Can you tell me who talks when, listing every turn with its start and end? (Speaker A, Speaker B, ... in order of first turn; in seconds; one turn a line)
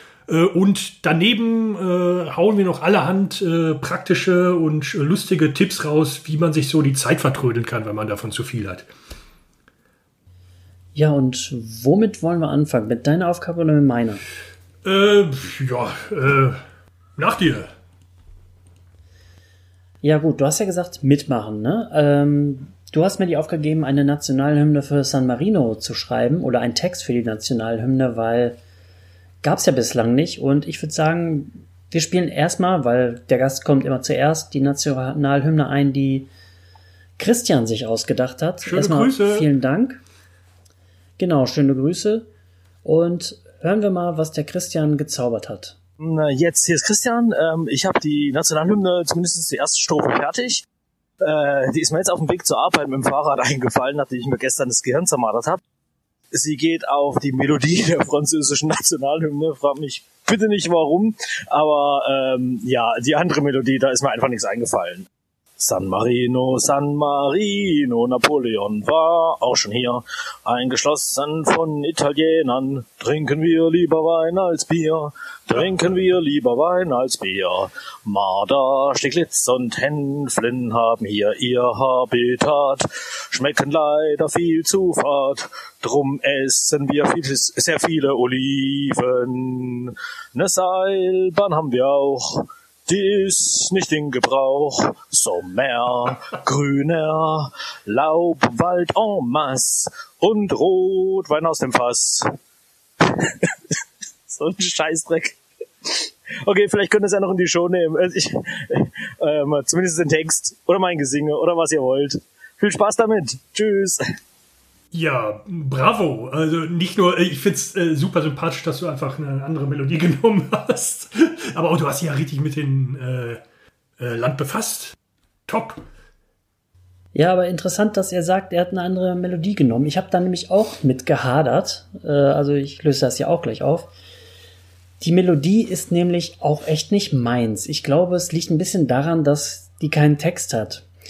Speaker A: 0.3-8.9
Speaker B: 10.9-14.2
Speaker A: 14.8-16.6
Speaker A: 17.2-17.7
Speaker B: 20.0-28.6
Speaker B: 29.4-36.3
Speaker B: 37.2-40.0
Speaker A: 38.6-39.5
Speaker B: 41.2-42.3
Speaker B: 42.8-45.8
Speaker C: 46.0-50.6
Speaker C: 51.2-55.6
Speaker C: 56.3-65.1
Speaker C: 65.6-102.3
Speaker C: 103.0-103.8
Speaker C: 104.3-114.0
Speaker A: 114.9-123.4
Speaker A: 124.0-125.0
Speaker A: 125.5-125.8
Speaker B: 127.1-133.9
Speaker B: 135.0-140.8